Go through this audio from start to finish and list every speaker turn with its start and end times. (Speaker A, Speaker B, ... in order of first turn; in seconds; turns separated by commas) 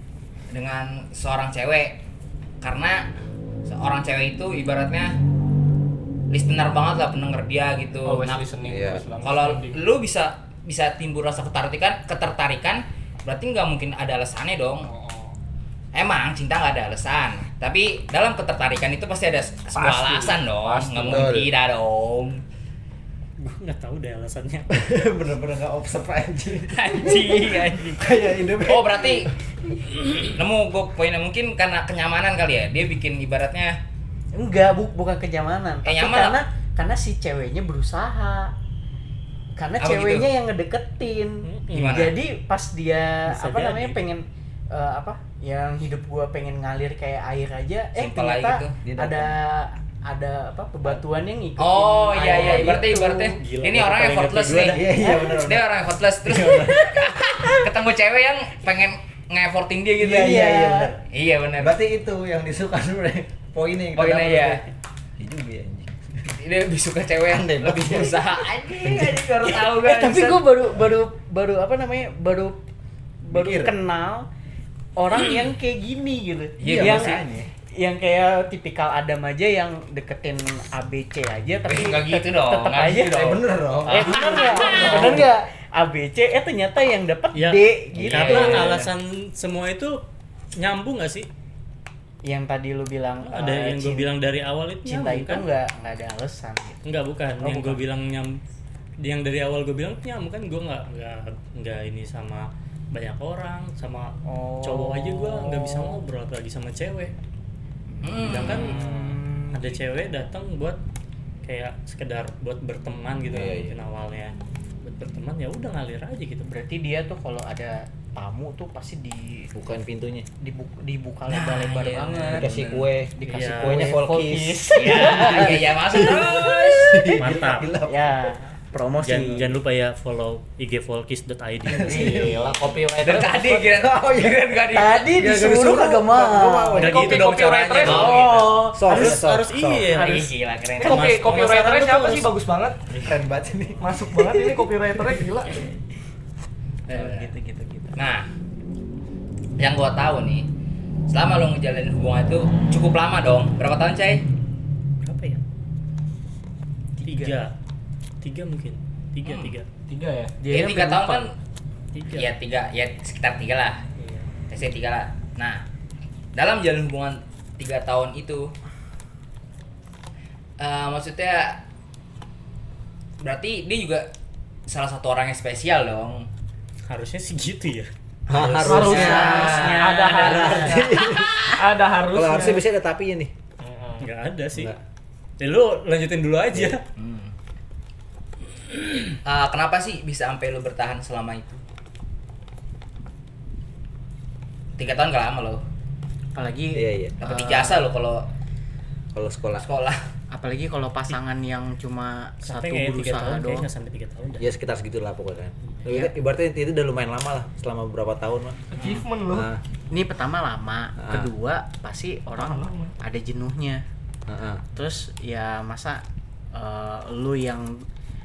Speaker A: 0.5-2.0, Speaker A: 2.6-3.1, Speaker A: 3.6-5.2, Speaker A: 6.3-8.5, Speaker B: 8.0-9.8, Speaker C: 8.6-9.1, Speaker A: 9.2-14.9, Speaker B: 14.9-15.3, Speaker A: 15.9-22.4, Speaker B: 19.7-21.3, Speaker C: 21.0-21.5, Speaker D: 23.4-24.7, Speaker C: 24.7-29.3, Speaker A: 26.7-29.3, Speaker A: 30.2-33.8, Speaker E: 34.3-38.5, Speaker A: 35.8-36.4, Speaker E: 39.5-53.4, Speaker A: 39.8-40.3, Speaker D: 41.4-42.0, Speaker A: 41.7-42.2, Speaker D: 43.3-44.0, Speaker A: 47.9-48.7, Speaker C: 48.8-49.3, Speaker A: 51.6-60.5, Speaker D: 53.4-54.8, Speaker C: 54.6-55.7, Speaker E: 55.0-55.4, Speaker C: 56.2-57.0, Speaker C: 60.0-61.0, Speaker E: 60.0-61.0, Speaker A: 61.0-61.8, Speaker C: 61.6-64.6, Speaker A: 63.9-64.6, Speaker C: 65.2-66.1, Speaker A: 66.3-70.4, Speaker C: 67.3-68.2, Speaker C: 68.8-69.2, Speaker E: 69.5-72.6, Speaker E: 73.2-74.3, Speaker C: 73.3-73.7, Speaker E: 75.0-77.2, Speaker A: 76.6-77.2, Speaker C: 76.6-77.5, Speaker E: 77.8-88.8, Speaker A: 81.7-85.1, Speaker C: 83.1-85.3, Speaker D: 87.3-90.0, Speaker C: 88.0-88.7, Speaker A: 88.0-88.8, Speaker D: 90.6-91.3, Speaker E: 92.2-94.1, Speaker D: 93.2-95.5, Speaker E: 94.8-96.8, Speaker D: 96.8-98.4, Speaker E: 97.4-97.8, Speaker D: 99.0-107.1, Speaker E: 104.2-106.0, Speaker A: 108.0-108.7, Speaker D: 108.2-110.8, Speaker E: 108.3-109.7, Speaker D: 111.4-116.5, Speaker C: 113.3-113.8, Speaker E: 116.5-119.5, Speaker C: 119.5-120.3, Speaker E: 120.4-122.7, Speaker A: 121.3-122.8, Speaker C: 122.3-128.0, Speaker E: 123.2-127.1, Speaker D: 123.3-123.9, Speaker A: 124.7-127.1, Speaker D: 127.2-127.7, Speaker E: 127.8-129.5, Speaker D: 129.0-132.0, Speaker C: 131.7-132.5, Speaker B: 131.8-133.6, Speaker A: 131.9-132.4, Speaker A: 133.0-135.1, Speaker C: 133.5-134.4, Speaker E: 134.7-136.9, Speaker C: 135.1-137.1, Speaker B: 136.8-138.3, Speaker D: 136.8-142.3, Speaker A: 136.9-138.6, Speaker E: 138.0-139.2, Speaker C: 138.7-139.9, Speaker A: 139.9-141.2, Speaker B: 140.8-142.8, Speaker C: 143.0-143.9, Speaker B: 143.8-145.6, Speaker A: 146.9-147.3, Speaker E: 146.9-148.0, Speaker A: 147.9-148.3, Speaker A: 149.6-150.5, Speaker A: 151.1-154.2, Speaker D: 155.0-155.4, Speaker E: 157.0-157.4, Speaker D: 157.0-157.5, Speaker D: 158.2-159.7, Speaker A: 159.2-159.5, Speaker B: 159.9-160.4, Speaker E: 160.4-161.2, Speaker A: 160.4-161.3, Speaker D: 161.9-162.3, Speaker A: 162.1-163.8, Speaker D: 164.0-164.3, Speaker A: 164.5-165.6, Speaker A: 166.3-168.5, Speaker A: 170.6-171.6, Speaker A: 173.2-174.1, Speaker A: 174.7-176.3, Speaker D: 176.9-177.9, Speaker C: 178.3-181.6, Speaker A: 178.3-180.0, Speaker B: 178.6-182.6, Speaker E: 178.7-180.8, Speaker D: 180.2-180.7, Speaker C: 182.1-183.3, Speaker B: 183.6-184.1, Speaker D: 184.0-184.7, Speaker C: 184.5-184.8, Speaker D: 185.4-186.8, Speaker A: 186.9-187.3, Speaker A: 189.2-191.6, Speaker A: 194.8-195.6, Speaker E: 196.3-197.9, Speaker C: 196.7-197.2, Speaker A: 197.2-198.2, Speaker C: 199.1-199.7, Speaker A: 199.6-200.0, Speaker E: 200.3-203.7, Speaker D: 202.4-204.4, Speaker C: 204.4-208.7, Speaker B: 208.7-209.5, Speaker C: 209.2-209.6, Speaker E: 209.9-213.8, Speaker C: 211.0-211.3, Speaker B: 212.3-212.9, Speaker C: 214.3-214.6, Speaker E: 214.7-216.0, Speaker E: 216.5-217.8